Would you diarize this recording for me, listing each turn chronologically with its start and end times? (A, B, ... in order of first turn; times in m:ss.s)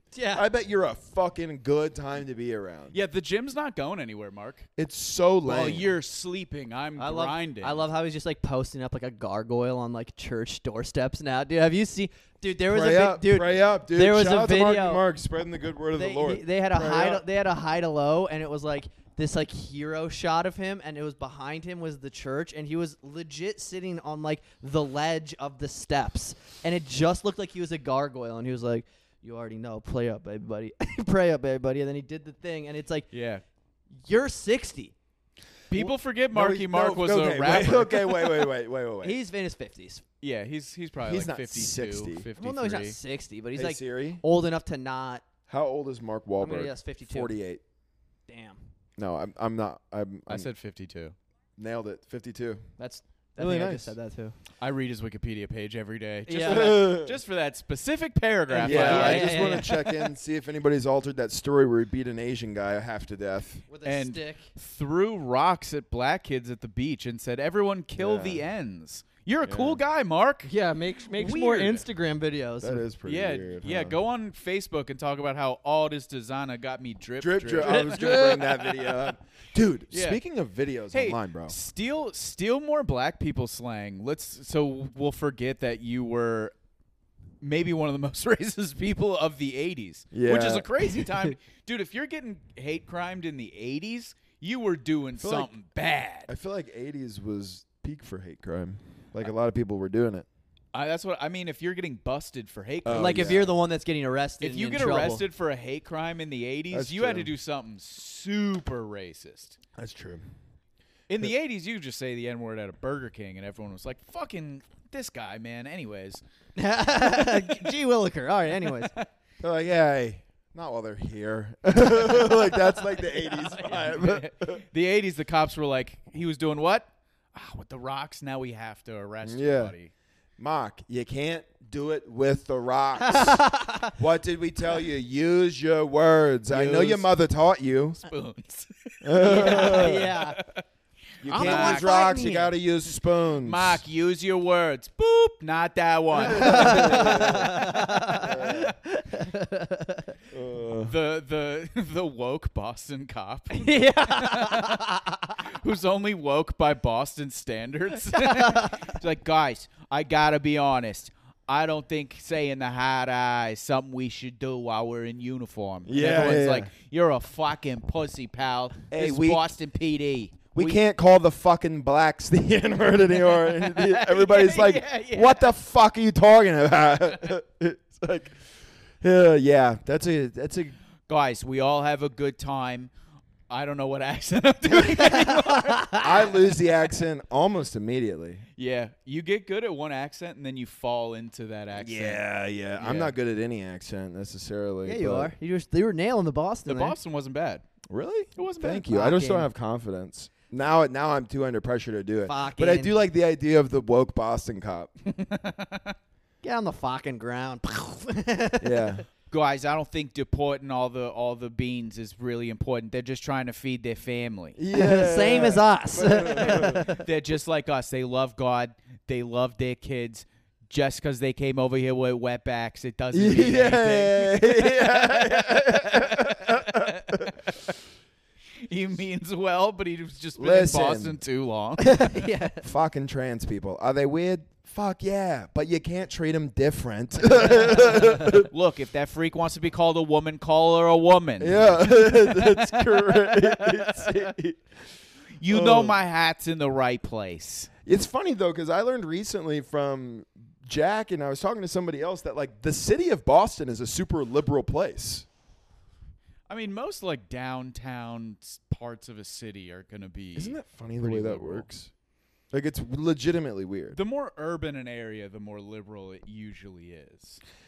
0:00.1-0:00.4 A
0:00.3-0:03.0 B
0:02.9-0:04.7 C
0:04.8-0:05.9 B
0:05.4-0:07.9 C
0:07.0-0:15.0 A
0:12.7-0:17.2 B
0:16.0-0:33.1 A
0:33.1-0:33.4 C
0:34.0-0:35.0 A
0:35.7-0:38.1 C
0:35.7-0:39.2 B
0:39.0-0:40.0 A
0:40.2-0:43.0 C
0:41.0-0:42.3 B
0:42.4-0:45.2 A
0:43.6-0:44.2 B
0:45.5-0:47.6 B
0:46.4-0:47.3 A
0:48.3-0:48.6 A
0:49.0-0:50.5 B
0:50.3-0:51.2 C
0:51.6-0:52.7 B
0:52.8-0:54.4 A
0:53.4-0:54.0 B
0:54.6-0:59.7 C
0:56.3-0:56.9 A
0:56.5-0:57.2 B
0:58.5-1:00.0 A
0:58.5-1:03.6 B
1:03.7-1:04.5 A
1:03.8-1:10.5 C
1:08.0-1:08.4 B
1:09.4-1:09.8 B
1:10.4-1:12.9 A
1:11.1-1:11.8 C
1:12.6-1:14.0 B
1:13.1-1:19.0 C
1:17.2-1:21.6 B
1:17.6-1:18.5 A
1:19.9-1:20.2 C
1:20.9-1:26.5 C
1:27.4-1:36.3 C
1:30.1-1:30.7 B
1:35.2-1:35.5 B
1:36.3-1:40.3 B
1:40.7-1:43.4 C
1:42.8-1:43.5 B
1:42.9-1:45.2 A
1:44.4-1:49.6 C
1:46.7-1:47.3 B
1:49.8-1:50.2 B
1:51.1-1:56.2 C
1:56.6-1:58.9 A
1:57.0-1:57.7 C
1:58.6-1:59.1 C
1:59.4-2:04.6 B
2:03.4-2:09.9 C
2:09.2-2:09.8 B
2:10.4-2:18.0 B
2:13.0-2:14.0 A
2:16.5-2:17.1 C
2:18.0-2:20.6 C
2:19.0-2:20.1 B
2:19.2-2:20.4 A
2:21.2-2:23.8 B
2:21.2-2:22.2 C
2:21.3-2:22.6 A
2:23.4-2:28.7 C
2:26.2-2:28.7 B
2:26.2-2:30.2 A
2:30.3-2:30.9 B
2:30.8-2:50.8 C
2:33.5-2:35.3 A
2:38.2-2:38.8 A
2:45.9-2:46.7 B
2:48.9-2:49.5 B
2:50.5-2:58.5 B
2:53.3-2:55.5 C
2:59.0-3:00.8 B
3:01.1-3:02.9 C
3:03.5-3:06.3 C
3:04.8-3:06.1 A
3:06.0-3:08.4 B
3:08.6-3:12.2 C
3:11.7-3:15.3 B
3:12.8-3:13.1 C
3:14.8-3:17.0 A
3:16.7-3:17.6 C
3:17.9-3:24.9 B
3:18.4-3:18.9 C
3:18.8-3:19.5 A
3:22.3-3:22.9 A
3:25.1-3:26.0 C
3:26.4-3:29.0 A
3:28.6-3:29.0 B
3:29.3-3:34.6 C
3:34.6-3:36.9 B
3:34.7-3:37.0 A
3:36.5-3:47.8 C
3:43.1-3:47.4 B
3:48.6-3:52.1 C
3:50.4-3:51.2 B
3:51.8-3:52.6 A
3:52.6-3:58.5 B
3:57.7-4:04.3 C
4:01.4-4:04.6 B
4:05.4-4:07.7 C
4:05.5-4:06.0 B
4:07.9-4:15.3 B
4:16.5-4:21.7 C
4:20.4-4:21.9 B
4:22.5-4:24.0 B
4:23.9-4:27.4 C